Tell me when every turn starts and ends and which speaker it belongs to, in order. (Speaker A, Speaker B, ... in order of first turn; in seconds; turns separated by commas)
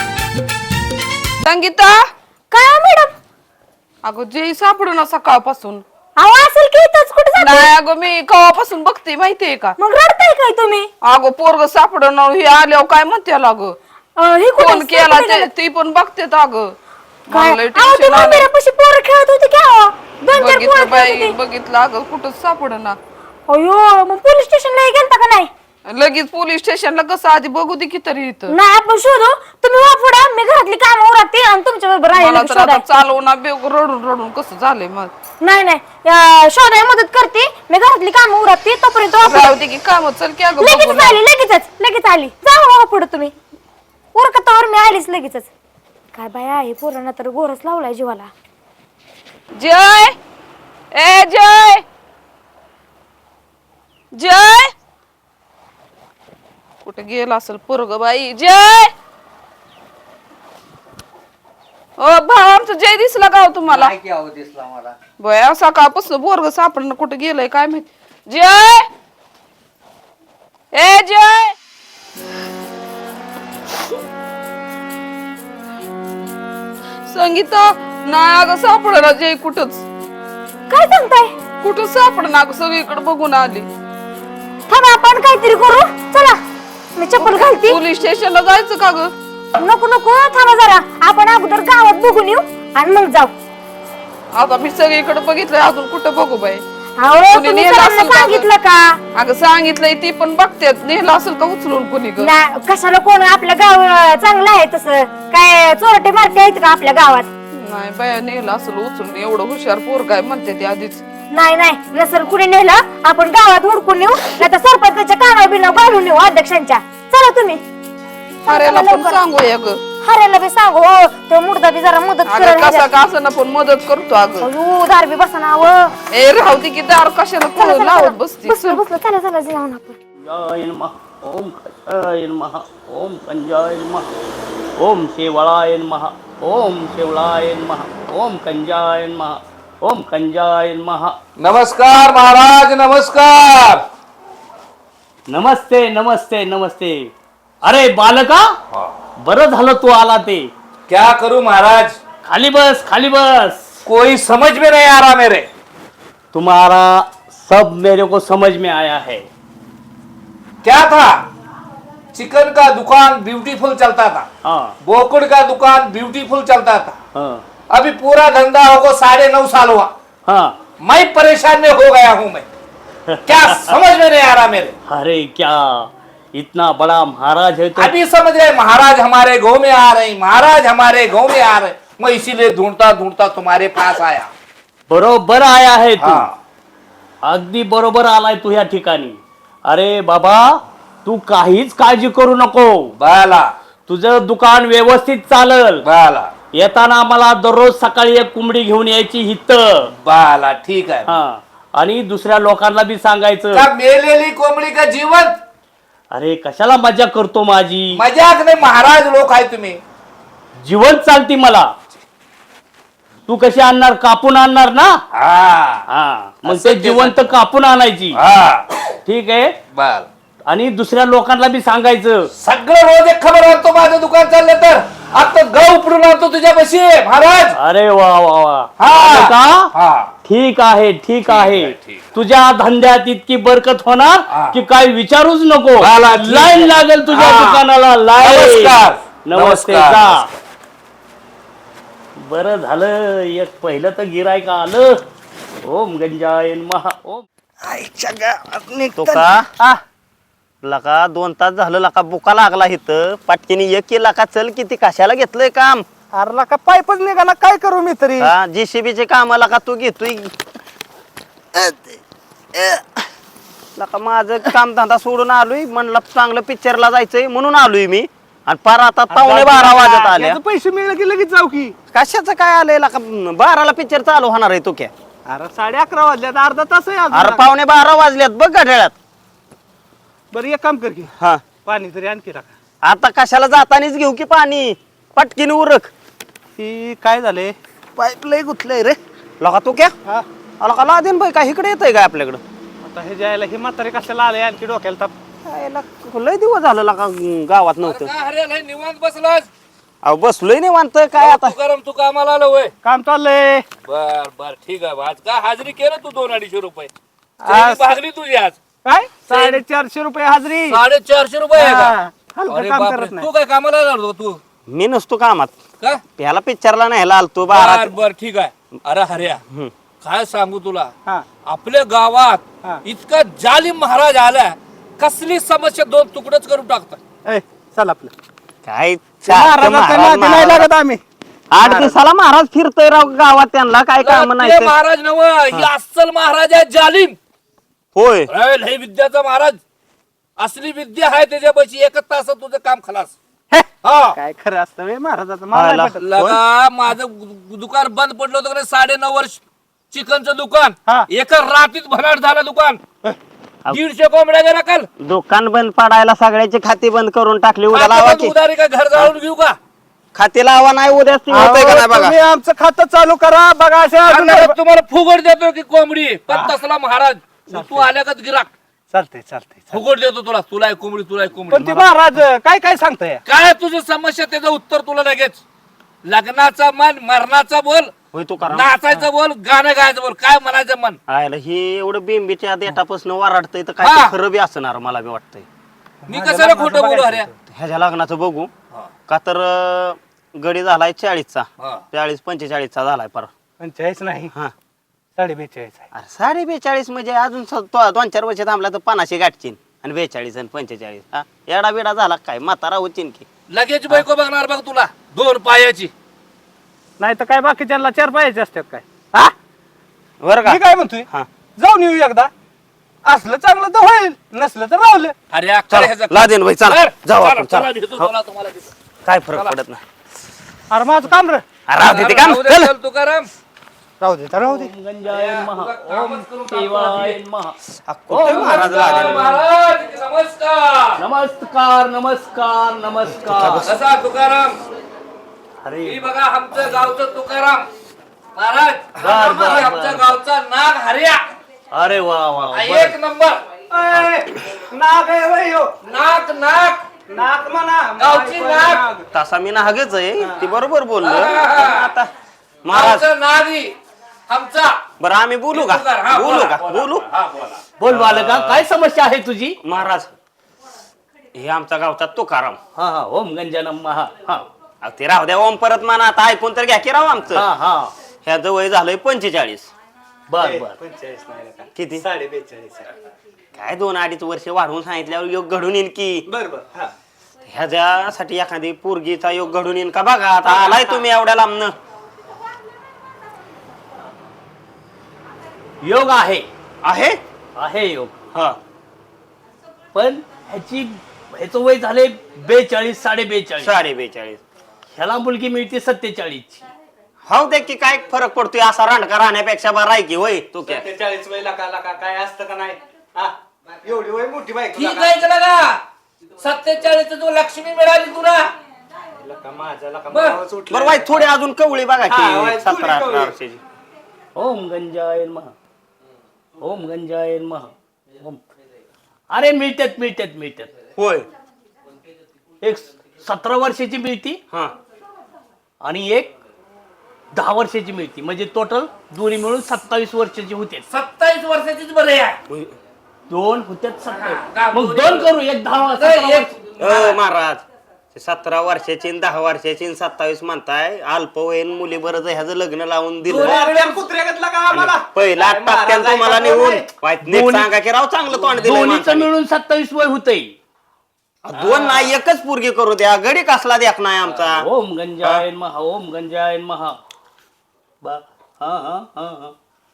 Speaker A: 1.4-2.0, Speaker B: 2.5-3.1, Speaker A: 4.0-5.8, Speaker B: 6.2-7.7, Speaker A: 7.4-9.8, Speaker B: 9.8-10.9, Speaker A: 11.0-13.8, Speaker B: 14.2-15.5, Speaker A: 14.6-16.8, Speaker A: 17.3-18.5, Speaker B: 17.3-21.4, Speaker A: 20.4-23.0, Speaker B: 23.5-25.5, Speaker A: 25.9-28.5, Speaker B: 28.5-32.9, Speaker A: 32.2-35.1, Speaker B: 35.4-39.6, Speaker A: 39.2-41.2, Speaker B: 40.6-43.3, Speaker B: 44.1-45.5, Speaker B: 46.1-48.3, Speaker A: 49.6-50.2, Speaker A: 50.9-51.8, Speaker A: 54.1-54.7, Speaker A: 56.8-58.9, Speaker A: 62.0-64.0, Speaker C: 63.7-64.9, Speaker A: 65.2-68.9, Speaker A: 70.7-71.5, Speaker A: 77.1-79.8, Speaker B: 80.7-81.3, Speaker A: 81.6-83.7, Speaker B: 84.7-86.4, Speaker B: 87.0-87.8, Speaker A: 87.2-89.1, Speaker B: 89.6-93.3, Speaker A: 94.4-96.6, Speaker B: 97.0-99.0, Speaker A: 97.3-98.5, Speaker A: 99.2-102.3, Speaker B: 102.2-107.3, Speaker A: 107.5-111.0, Speaker B: 111.3-117.6, Speaker B: 118.5-119.3, Speaker A: 118.5-119.8, Speaker B: 120.0-122.9, Speaker A: 122.3-124.5, Speaker B: 124.4-125.9, Speaker A: 126.1-128.8, Speaker B: 127.5-130.0, Speaker D: 130.2-134.2, Speaker D: 134.8-141.2, Speaker E: 141.4-143.9, Speaker D: 145.3-147.1, Speaker D: 147.6-148.6, Speaker D: 149.2-150.5, Speaker E: 150.9-152.0, Speaker D: 152.2-153.7, Speaker E: 153.9-155.5, Speaker D: 156.3-159.3, Speaker E: 160.6-161.2, Speaker E: 162.1-164.3, Speaker D: 164.4-164.8, Speaker E: 164.8-166.9, Speaker D: 167.1-167.4, Speaker E: 167.7-169.9, Speaker D: 170.3-170.6, Speaker E: 170.8-172.4, Speaker D: 173.1-173.7, Speaker E: 173.3-174.8, Speaker D: 174.9-177.9, Speaker E: 177.8-184.3, Speaker D: 184.9-186.3, Speaker E: 186.0-186.3, Speaker D: 187.2-192.9, Speaker E: 193.0-193.5, Speaker D: 193.9-195.8, Speaker E: 195.8-196.3, Speaker D: 196.5-199.9, Speaker E: 199.9-201.1, Speaker D: 201.1-203.7, Speaker E: 203.5-205.4, Speaker D: 206.1-208.0, Speaker E: 207.9-209.8, Speaker D: 210.6-211.7, Speaker D: 213.3-215.0, Speaker E: 215.1-215.8, Speaker D: 215.9-218.2, Speaker E: 216.4-217.3, Speaker E: 218.1-218.7, Speaker D: 219.1-219.6, Speaker E: 219.7-220.1, Speaker D: 220.5-222.3, Speaker E: 222.4-227.6, Speaker D: 227.6-229.7, Speaker E: 228.8-230.1, Speaker D: 230.2-240.3, Speaker E: 231.3-232.1, Speaker E: 234.3-234.6, Speaker E: 235.8-237.6, Speaker E: 238.2-240.2, Speaker D: 242.2-245.0, Speaker D: 245.6-247.3, Speaker C: 247.6-249.8, Speaker F: 249.0-249.5, Speaker F: 250.6-255.8, Speaker C: 256.1-258.3, Speaker F: 258.2-260.3, Speaker C: 261.6-262.0, Speaker C: 262.5-263.0, Speaker F: 263.8-270.4, Speaker C: 269.1-271.8, Speaker F: 271.9-274.9, Speaker C: 275.3-277.5, Speaker F: 277.1-278.9, Speaker C: 280.3-281.1, Speaker F: 281.2-281.4, Speaker C: 281.6-282.5, Speaker F: 282.8-285.9, Speaker C: 286.6-289.0, Speaker F: 289.4-289.9, Speaker F: 290.6-292.4, Speaker C: 292.8-295.1, Speaker F: 295.4-298.1, Speaker E: 297.8-299.5, Speaker F: 300.0-301.6, Speaker E: 301.2-302.7, Speaker C: 302.8-303.6, Speaker E: 303.9-306.9, Speaker C: 307.4-307.9, Speaker E: 307.5-308.6, Speaker C: 308.8-310.8, Speaker E: 309.3-309.6, Speaker E: 310.7-311.9, Speaker C: 311.6-313.3, Speaker E: 312.5-314.4, Speaker F: 314.7-315.6, Speaker F: 316.2-317.9, Speaker E: 317.5-319.4, Speaker F: 319.5-319.7, Speaker E: 320.0-320.9, Speaker E: 321.5-327.0, Speaker C: 327.2-328.1, Speaker F: 328.6-330.7, Speaker C: 329.2-331.0, Speaker F: 331.5-334.7, Speaker C: 331.6-331.9, Speaker E: 334.0-337.2, Speaker F: 337.9-338.3, Speaker E: 338.3-339.6, Speaker E: 340.4-343.2, Speaker C: 343.5-346.1, Speaker E: 343.8-344.2, Speaker F: 345.5-346.4, Speaker E: 346.0-349.4, Speaker E: 349.9-352.8, Speaker E: 353.7-354.9, Speaker F: 355.0-358.3, Speaker E: 357.7-359.6, Speaker F: 360.1-362.2, Speaker C: 361.3-364.6, Speaker E: 364.1-368.5, Speaker C: 367.5-367.9, Speaker C: 368.9-369.8, Speaker E: 369.7-371.9, Speaker C: 371.5-373.2, Speaker E: 373.3-375.4, Speaker E: 376.1-377.9, Speaker F: 378.1-378.7, Speaker E: 378.5-381.0, Speaker F: 381.1-385.5, Speaker E: 383.8-384.1, Speaker C: 386.0-387.3, Speaker E: 386.1-387.3, Speaker F: 387.5-388.5, Speaker F: 389.1-393.3, Speaker E: 391.6-391.9, Speaker C: 393.6-394.3, Speaker C: 395.2-395.9, Speaker F: 395.9-403.3, Speaker E: 403.5-405.9, Speaker C: 407.0-409.3, Speaker F: 410.2-411.3, Speaker C: 410.4-412.3, Speaker C: 413.1-415.1, Speaker E: 415.3-418.7, Speaker F: 415.7-418.1, Speaker F: 419.1-419.8, Speaker C: 420.7-421.4, Speaker F: 421.7-422.7, Speaker E: 421.8-423.3, Speaker C: 424.0-424.7, Speaker D: 424.4-427.6, Speaker E: 425.1-427.2, Speaker F: 427.9-429.4, Speaker D: 428.1-429.3, Speaker E: 428.2-431.0, Speaker D: 431.0-433.6, Speaker F: 433.1-433.7, Speaker E: 433.6-434.6, Speaker D: 435.6-436.1, Speaker E: 435.8-437.7, Speaker E: 438.4-441.3, Speaker D: 439.0-440.2, Speaker D: 441.7-442.9, Speaker E: 442.5-443.4, Speaker C: 443.7-445.9, Speaker E: 445.8-447.1, Speaker C: 447.1-449.1, Speaker E: 448.0-448.9, Speaker F: 449.1-452.1, Speaker E: 451.0-451.9, Speaker F: 452.6-453.1, Speaker E: 452.7-453.8, Speaker E: 454.3-454.9, Speaker F: 455.0-457.1, Speaker E: 455.5-457.6, Speaker D: 457.8-459.6, Speaker F: 457.9-458.7, Speaker F: 459.6-460.1, Speaker F: 461.3-462.6, Speaker D: 462.8-464.5, Speaker F: 464.8-467.5, Speaker D: 467.3-467.9, Speaker F: 468.2-469.7, Speaker D: 470.3-470.8, Speaker C: 470.4-472.9, Speaker F: 471.7-472.0, Speaker F: 473.5-476.3, Speaker C: 476.3-476.9, Speaker F: 477.4-481.8, Speaker C: 480.5-481.0, Speaker D: 485.8-486.5, Speaker F: 486.8-487.2, Speaker D: 487.6-488.2, Speaker F: 488.3-488.6, Speaker D: 489.9-493.8, Speaker F: 493.6-494.4, Speaker D: 495.0-496.6, Speaker F: 497.2-500.9, Speaker C: 500.6-505.2, Speaker E: 504.7-505.8, Speaker E: 506.4-508.5, Speaker C: 509.1-511.2, Speaker E: 510.1-510.4, Speaker F: 510.7-513.6, Speaker C: 512.0-513.4, Speaker D: 514.4-515.5, Speaker D: 516.6-518.4, Speaker D: 519.3-520.7, Speaker F: 521.0-521.3, Speaker D: 522.6-524.4, Speaker F: 524.5-524.8, Speaker D: 525.8-526.3, Speaker D: 527.3-530.9, Speaker E: 530.9-532.4, Speaker F: 532.5-532.8, Speaker D: 533.3-536.5, Speaker E: 534.1-535.3, Speaker E: 535.9-537.2, Speaker F: 536.8-543.7, Speaker C: 543.3-546.9, Speaker E: 543.3-543.9, Speaker F: 544.7-549.3, Speaker D: 547.3-547.7, Speaker D: 548.6-550.5, Speaker F: 551.4-554.7, Speaker D: 551.6-552.1, Speaker D: 554.2-557.0, Speaker D: 558.0-559.6